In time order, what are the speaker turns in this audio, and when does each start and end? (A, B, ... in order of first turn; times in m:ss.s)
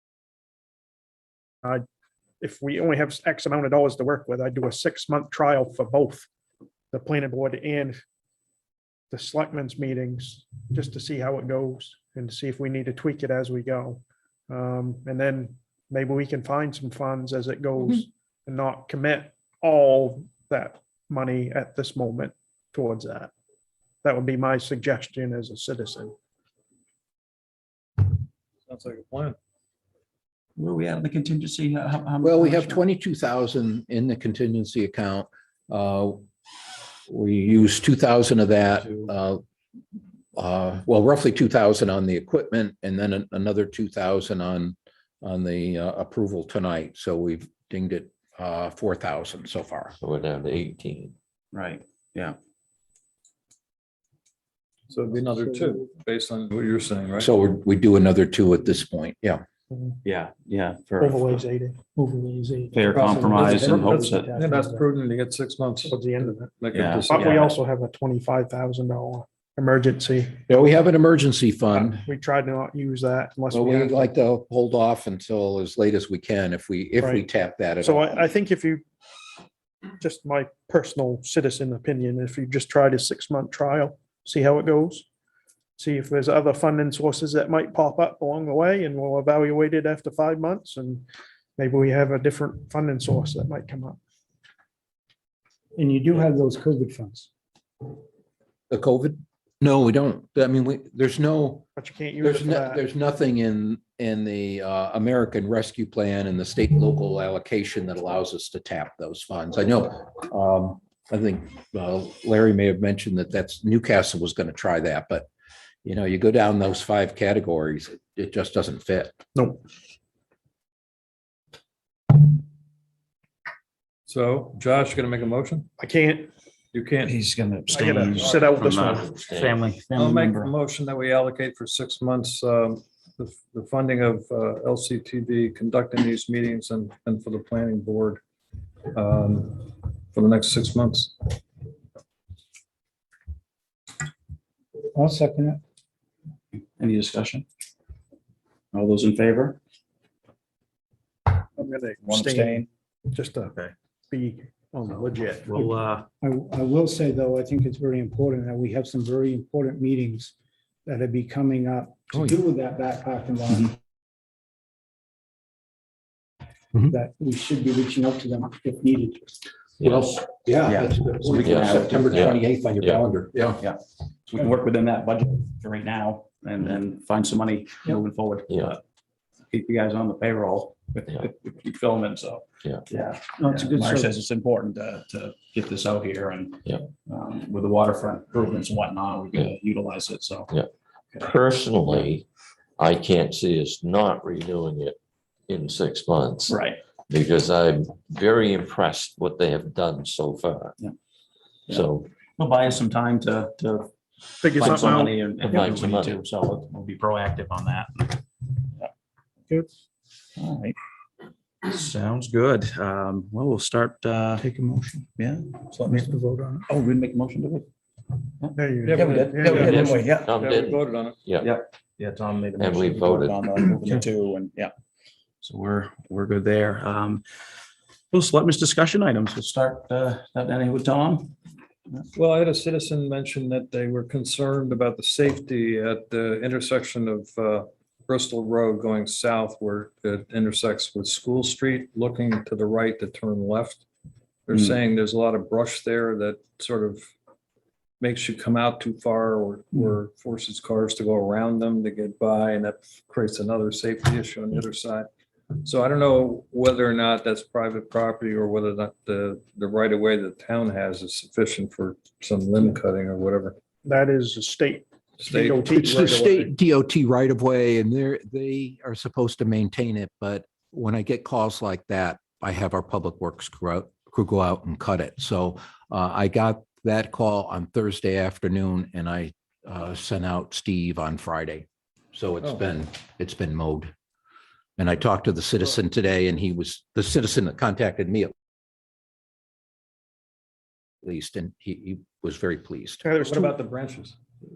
0:02.4-0:06.3 A
0:06.9-0:08.0 A
0:09.1-0:23.3 A
0:24.0-0:26.1 A
0:28.7-0:29.4 B
0:30.6-0:32.8 C
0:32.2-0:36.2 D
0:37.1-0:39.4 D
0:40.4-0:50.0 D
0:50.0-0:51.2 E
0:51.5-0:52.4 C
0:54.9-0:57.3 B
0:57.2-0:59.4 D
1:00.0-1:01.4 C
1:01.0-1:04.8 A
1:02.7-1:04.4 C
1:02.9-1:07.6 B
1:05.9-1:06.5 A
1:06.7-1:07.2 C
1:07.1-1:10.4 A
1:10.5-1:12.0 D
1:11.7-1:14.1 A
1:13.5-1:18.3 D
1:17.0-1:17.2 A
1:17.8-1:18.8 A
1:20.0-1:25.1 A
1:25.8-1:31.0 A
1:31.6-1:34.0 A
1:35.8-1:37.3 F
1:38.7-1:41.7 D
1:41.8-1:42.8 A
1:42.2-1:55.3 D
1:55.8-1:59.2 D
2:04.1-2:05.7 B
2:05.8-2:06.3 A
2:06.7-2:07.2 B
2:07.0-2:10.6 C
2:07.7-2:09.1 A
2:07.8-2:08.5 B
2:08.3-2:09.6 E
2:10.0-2:18.2 B
2:18.9-2:21.4 B
2:24.9-2:25.6 F
2:26.8-2:27.4 C
2:28.7-2:29.6 C
2:31.6-2:33.6 A
2:32.0-2:32.7 C
2:34.1-2:35.6 A
2:35.5-2:36.0 C
2:36.2-2:40.3 F
2:40.9-2:43.7 F
2:46.9-2:49.4 F
2:49.8-2:50.1 E
2:49.8-2:53.6 D
2:50.6-2:52.4 C
2:51.4-2:53.0 E
2:54.3-2:58.8 C
2:58.5-2:58.8 E
2:59.5-3:10.5 C
3:03.4-3:04.1 F
3:10.5-3:12.3 E
3:12.8-3:20.8 E
3:16.5-3:16.8 C
3:21.7-3:23.9 C
3:21.7-3:22.1 E
3:24.4-3:25.2 A
3:24.5-3:28.9 C
3:25.4-3:26.2 E
3:30.4-3:30.8 C
3:31.6-3:34.4 C
3:35.2-3:36.1 C
3:36.7-3:37.7 C
3:38.4-3:40.4 C
3:38.6-3:40.0 A
3:38.9-3:41.2 B
3:39.8-3:41.5 E
3:41.4-3:44.7 C
3:42.6-3:43.5 E
3:45.4-3:47.2 C
3:48.1-3:51.4 C
3:52.2-4:03.8 B
4:04.5-4:07.0 B
4:04.5-4:04.8 C
4:08.0-4:23.6 B
4:23.8-4:26.2 A
4:25.2-4:26.5 B
4:25.7-4:43.9 D
4:44.8-4:48.3 D
4:51.0-4:53.0 D
4:53.0-4:53.6 A
4:53.1-4:54.2 B